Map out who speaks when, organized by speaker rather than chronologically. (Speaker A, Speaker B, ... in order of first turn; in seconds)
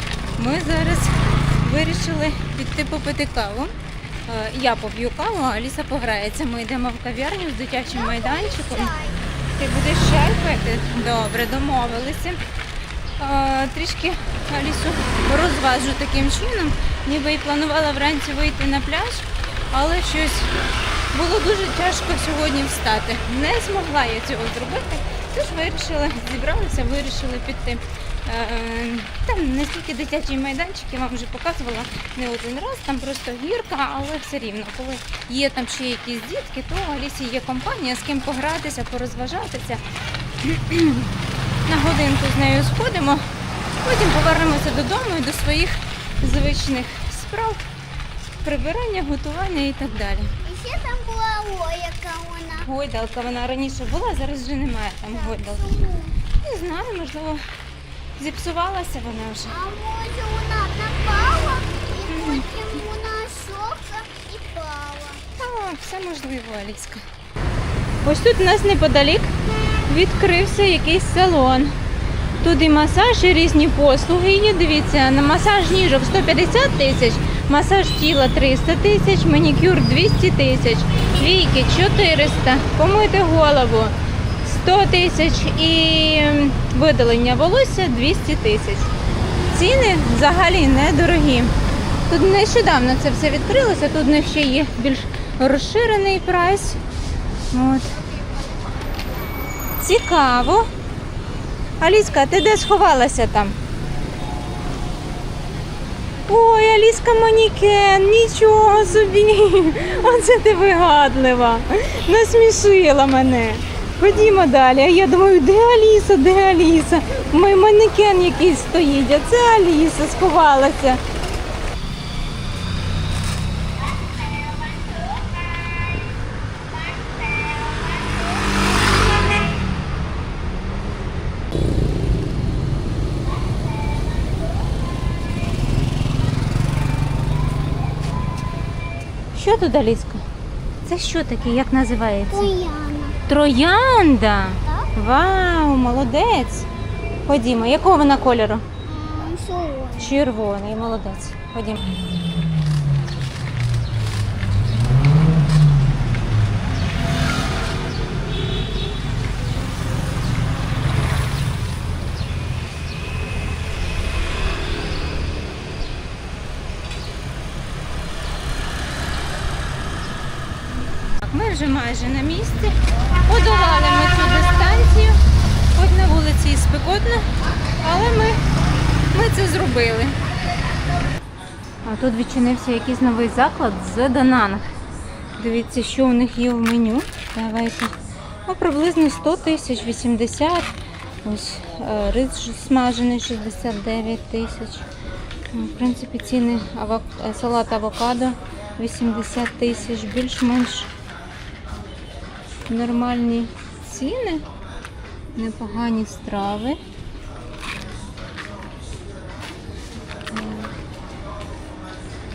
Speaker A: 0.4-3.7, 4.2-8.9, 9.5-12.4, 13.2-20.5, 21.1-39.8, 40.4-41.1, 41.7-43.2, 43.8-47.6, 48.4-50.3, 52.6-57.4, 58.2-59.6, 62.1-62.5, 65.3-67.0, 68.0-69.3, 69.8-71.7, 72.4-88.9, 89.5-91.5, 92.1-96.8, 97.5-98.0, 99.8-100.7, 101.8-103.6, 106.3-121.0, 139.3-140.2, 140.8-142.5, 143.3-146.7, 147.2-148.7, 150.0-151.9, 171.2-175.2, 175.7-177.3, 177.8-178.4, 179.1-180.2, 181.8-184.7, 185.4-187.9, 188.4-190.7, 191.2-194.9, 195.5-200.9, 202.7-204.4, 205.3-206.8, 210.3-210.7
Speaker B: 7.9-9.2, 50.4-52.7, 55.2-56.2, 59.5-65.2, 124.6-125.0, 126.9-128.4, 142.3-143.2, 148.8-150.2